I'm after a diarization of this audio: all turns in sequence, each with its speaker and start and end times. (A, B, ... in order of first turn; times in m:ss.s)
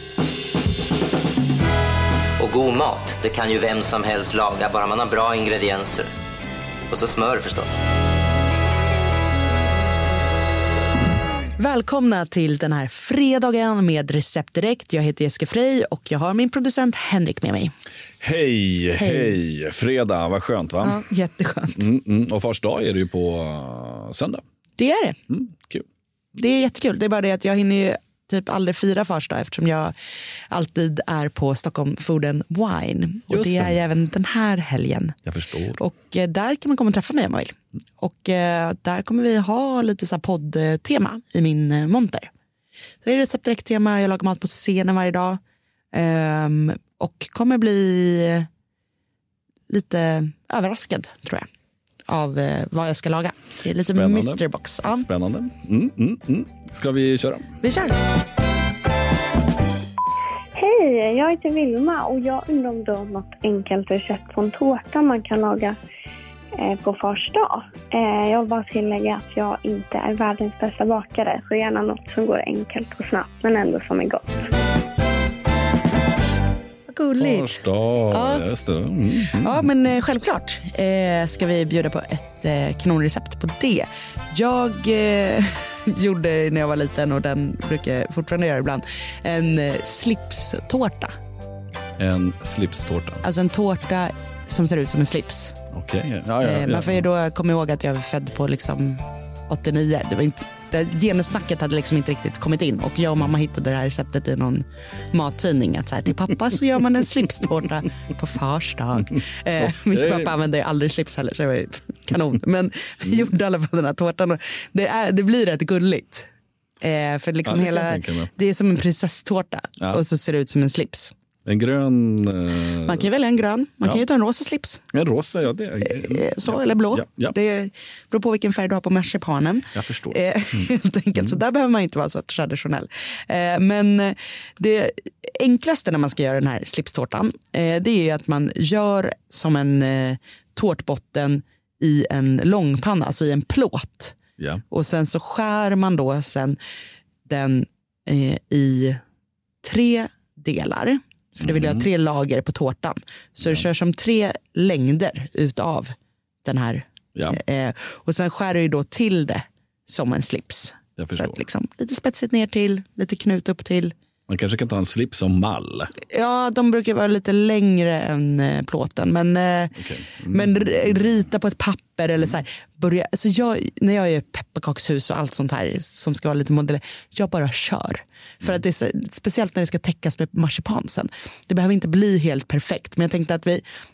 0:02.4-0:06.1 A
0:06.9-0:07.8 A
0:11.6-0:17.7 B
0:18.2-0:21.0 C
0:19.0-0:19.4 B
0:20.8-0:21.9 B
0:21.8-0:24.4 C
0:24.8-0:25.2 B
0:25.3-0:25.8 C
0:26.4-0:29.9 B
0:30.5-0:35.1 B
0:33.3-0:33.8 C
0:35.2-0:35.8 C
0:35.8-0:42.3 B
0:43.0-0:45.4 B
0:45.9-0:48.5 B
0:49.7-0:51.5 B
0:52.1-0:55.0 B
0:53.9-0:57.5 C
0:57.6-0:58.0 B
1:00.6-1:05.8 D
1:06.6-1:14.2 D
1:16.9-1:18.4 B
1:17.2-1:19.6 C
1:19.3-1:31.1 B
1:32.0-1:33.2 C
1:33.2-1:35.6 B
1:35.7-1:37.0 C
1:36.4-1:56.3 B
1:49.6-1:50.4 C
1:56.8-2:01.1 B
1:57.4-1:58.3 C
2:01.4-2:03.1 C
2:02.8-2:04.8 B
2:04.9-2:07.3 C
2:05.8-2:24.2 B
2:09.7-2:10.2 C
2:24.4-2:24.6 C
2:24.7-2:26.6 B
2:27.2-2:29.0 B
2:29.6-2:35.9 B
2:31.4-2:31.8 C
2:36.4-2:43.9 B
2:37.1-2:37.4 C
2:41.0-2:41.4 C
2:44.3-2:45.9 C
2:46.1-2:49.7 B
2:49.8-2:51.1 C
2:50.3-3:03.6 B